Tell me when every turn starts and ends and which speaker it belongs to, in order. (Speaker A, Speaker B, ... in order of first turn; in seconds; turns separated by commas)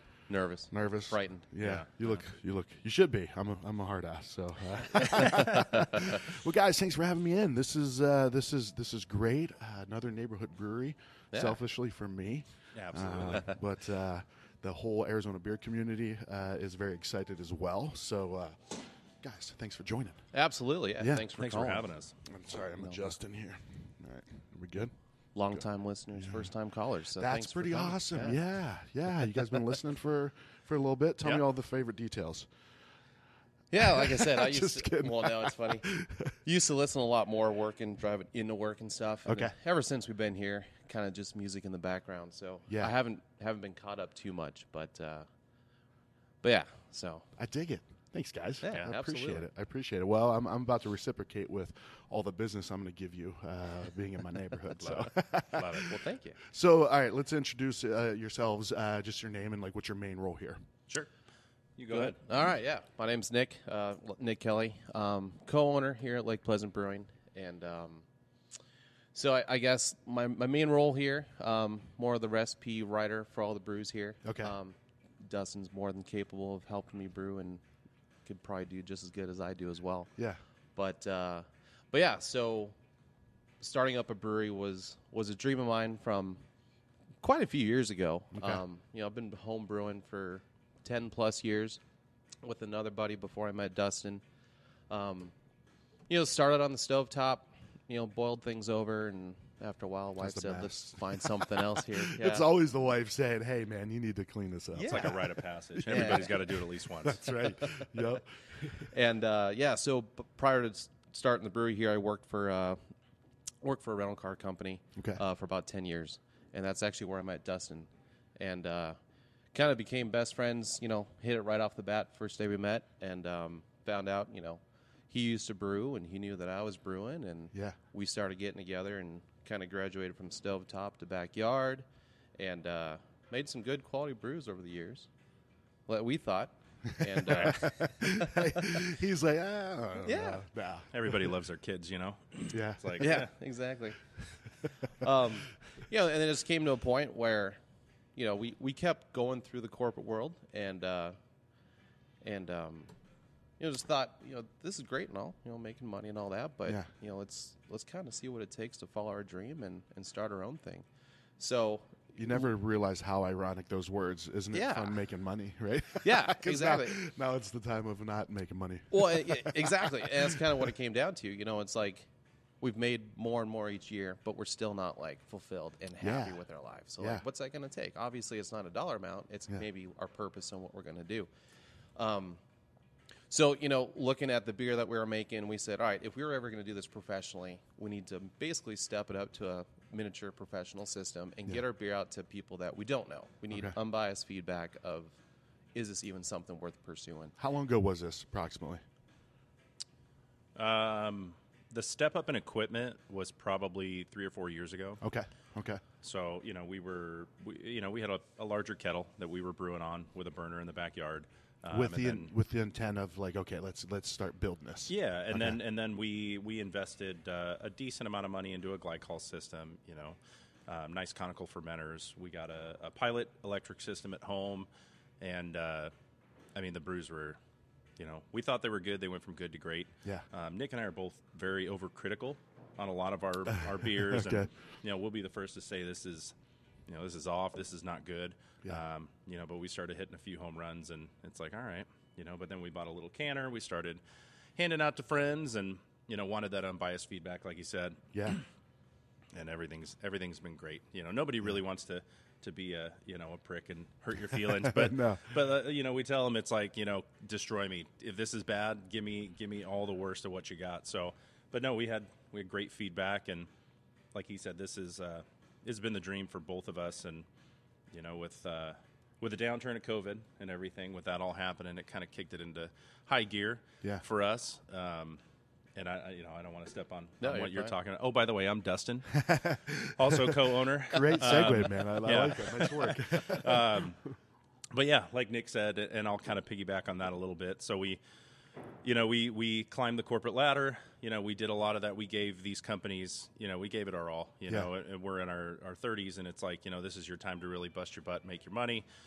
Speaker A: 0.3-1.5, Speaker B: 0.7-20.2, Speaker C: 1.6-2.2, Speaker A: 5.0-5.4, Speaker C: 5.2-5.8, Speaker A: 11.3-11.6, Speaker C: 12.7-13.6, Speaker A: 20.3-21.8, Speaker B: 21.0-24.9, Speaker C: 21.4-22.1, Speaker A: 22.8-23.1, Speaker A: 25.3-28.4, Speaker B: 26.2-26.5, Speaker B: 27.2-32.5, Speaker A: 33.7-35.9, Speaker B: 33.8-36.4, Speaker A: 36.4-45.3, Speaker B: 39.3-39.5, Speaker B: 42.7-43.0, Speaker A: 46.4-47.3, Speaker B: 47.4-60.6, Speaker A: 48.6-49.5, Speaker C: 54.8-56.0, Speaker A: 55.8-56.4, Speaker C: 61.8-62.2, Speaker A: 61.9-68.1, Speaker A: 69.1-77.6, Speaker B: 74.2-74.5, Speaker A: 78.2-80.1, Speaker A: 80.8-82.8, Speaker A: 83.6-86.4, Speaker A: 87.2-91.8, Speaker B: 88.3-88.6, Speaker A: 92.4-94.2, Speaker A: 94.9-95.3, Speaker A: 96.1-102.5, Speaker B: 100.2-108.9, Speaker A: 104.8-105.3, Speaker C: 104.8-107.3, Speaker A: 105.9-106.4, Speaker A: 108.9-112.8, Speaker A: 113.6-119.0, Speaker B: 115.0-115.2, Speaker A: 119.5-131.8, Speaker A: 132.4-135.1, Speaker A: 135.9-138.8, Speaker B: 137.0-141.3, Speaker A: 140.0-140.4, Speaker C: 140.9-143.3, Speaker B: 142.5-143.2, Speaker A: 143.0-144.0, Speaker A: 145.0-147.6, Speaker A: 148.2-151.2, Speaker A: 152.2-152.9, Speaker A: 153.6-160.8, Speaker A: 161.4-162.2, Speaker B: 162.2-170.7, Speaker A: 164.5-165.0, Speaker A: 166.0-167.0, Speaker A: 168.9-172.1, Speaker A: 172.6-181.3, Speaker B: 176.0-176.4, Speaker B: 177.0-177.2, Speaker A: 182.0-182.4, Speaker A: 183.3-195.2, Speaker A: 195.7-197.3, Speaker B: 197.4-198.8, Speaker C: 200.5-205.0, Speaker B: 205.0-205.8, Speaker C: 206.0-212.3, Speaker B: 211.7-215.6, Speaker C: 214.9-224.7, Speaker C: 225.2-225.9, Speaker C: 226.5-227.4, Speaker C: 228.0-236.3, Speaker B: 233.9-234.5, Speaker C: 236.9-244.0, Speaker C: 244.6-248.4, Speaker B: 248.1-248.4, Speaker C: 249.3-263.5, Speaker B: 254.4-255.4, Speaker C: 264.1-267.2, Speaker C: 267.9-275.2, Speaker C: 275.8-279.3, Speaker A: 277.2-277.8, Speaker B: 279.1-283.9, Speaker C: 279.9-284.0, Speaker C: 284.7-288.0, Speaker C: 288.8-298.9